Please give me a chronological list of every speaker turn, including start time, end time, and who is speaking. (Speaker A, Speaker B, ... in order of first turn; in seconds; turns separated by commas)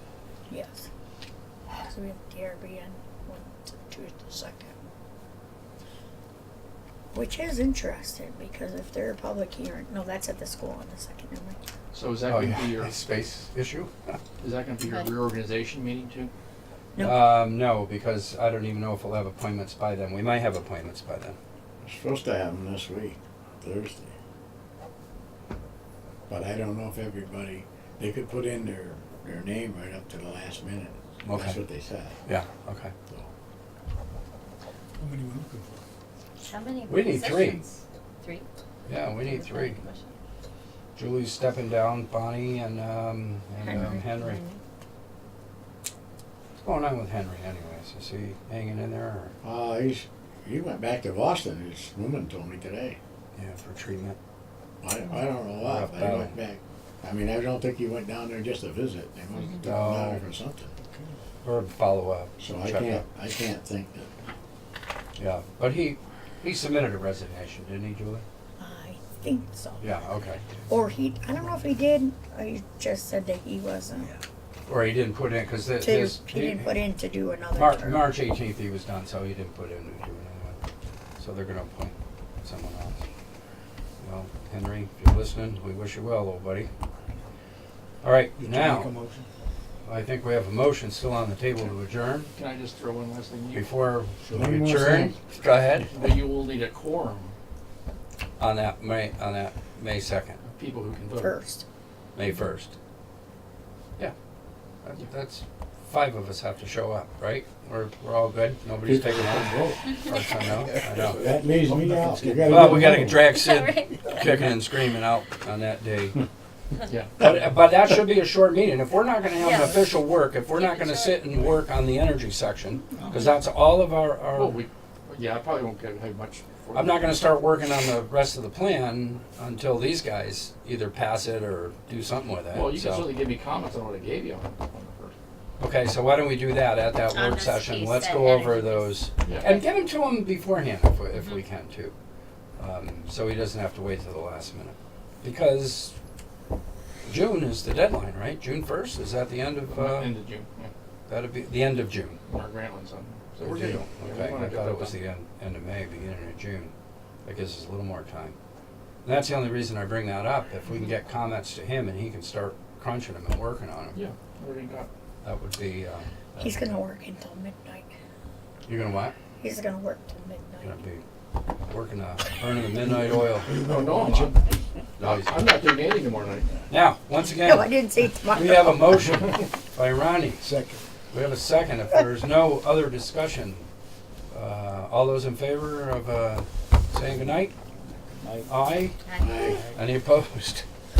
Speaker A: 0.5-0.9, Speaker A: 1.9-4.7, Speaker A: 7.1-11.6, Speaker B: 11.9-12.9, Speaker C: 12.2-14.2, Speaker B: 14.4-16.3, Speaker A: 16.9-17.4, Speaker C: 17.0-21.4, Speaker D: 21.8-24.1, Speaker D: 26.3-32.2, Speaker C: 31.2-31.6, Speaker C: 32.2-32.9, Speaker E: 35.0-35.8, Speaker F: 36.5-38.5, Speaker C: 36.9-37.6, Speaker C: 38.9-39.8, Speaker F: 39.1-40.1, Speaker C: 41.0-44.4, Speaker A: 43.6-43.9, Speaker F: 43.8-44.6, Speaker C: 46.6-49.4, Speaker D: 49.4-53.0, Speaker C: 53.3-54.2, Speaker D: 54.8-60.7, Speaker C: 55.6-56.4, Speaker C: 59.6-60.3, Speaker C: 61.4-63.0, Speaker D: 62.4-64.1, Speaker C: 65.2-68.2, Speaker A: 68.6-69.9, Speaker C: 69.8-70.4, Speaker A: 70.7-74.1, Speaker C: 74.7-76.7, Speaker A: 75.8-78.1, Speaker C: 77.5-80.6, Speaker C: 81.2-83.0, Speaker C: 84.0-86.7, Speaker C: 88.0-88.9, Speaker E: 88.4-89.3, Speaker C: 89.8-92.3, Speaker B: 92.3-93.7, Speaker C: 93.5-95.9, Speaker E: 94.2-95.1, Speaker D: 94.4-95.1, Speaker B: 95.9-97.3, Speaker C: 98.4-100.4, Speaker B: 100.4-101.3, Speaker A: 101.2-101.6, Speaker C: 102.1-102.7, Speaker C: 104.8-111.2, Speaker D: 108.8-109.8, Speaker D: 110.8-113.2, Speaker E: 110.9-113.3, Speaker C: 112.5-116.2, Speaker F: 113.3-114.3, Speaker B: 116.9-117.5, Speaker C: 117.2-124.6, Speaker F: 119.3-121.3, Speaker E: 122.9-123.3, Speaker B: 124.3-127.1, Speaker C: 126.7-133.1, Speaker B: 132.5-135.1, Speaker C: 135.6-141.9, Speaker F: 137.0-139.4, Speaker B: 139.2-139.5, Speaker C: 142.6-145.9, Speaker C: 147.0-150.1, Speaker B: 149.7-150.7, Speaker C: 151.1-152.2, Speaker B: 152.3-155.0, Speaker C: 153.4-156.7, Speaker C: 157.2-158.3, Speaker C: 159.0-164.0, Speaker B: 163.9-164.9, Speaker C: 165.2-166.7, Speaker A: 166.4-167.9, Speaker C: 168.7-169.1, Speaker A: 169.4-170.8, Speaker C: 170.6-171.0, Speaker C: 171.7-173.5, Speaker E: 172.8-174.5, Speaker B: 173.6-174.4, Speaker C: 175.0-175.4, Speaker B: 175.0-176.7, Speaker C: 176.7-180.4, Speaker A: 177.4-178.8, Speaker E: 180.4-180.8, Speaker C: 181.1-183.7, Speaker C: 184.3-187.5, Speaker E: 188.2-188.6, Speaker C: 188.5-189.0, Speaker F: 189.1-189.4, Speaker D: 189.2-189.6, Speaker E: 189.4-189.8, Speaker C: 189.7-190.7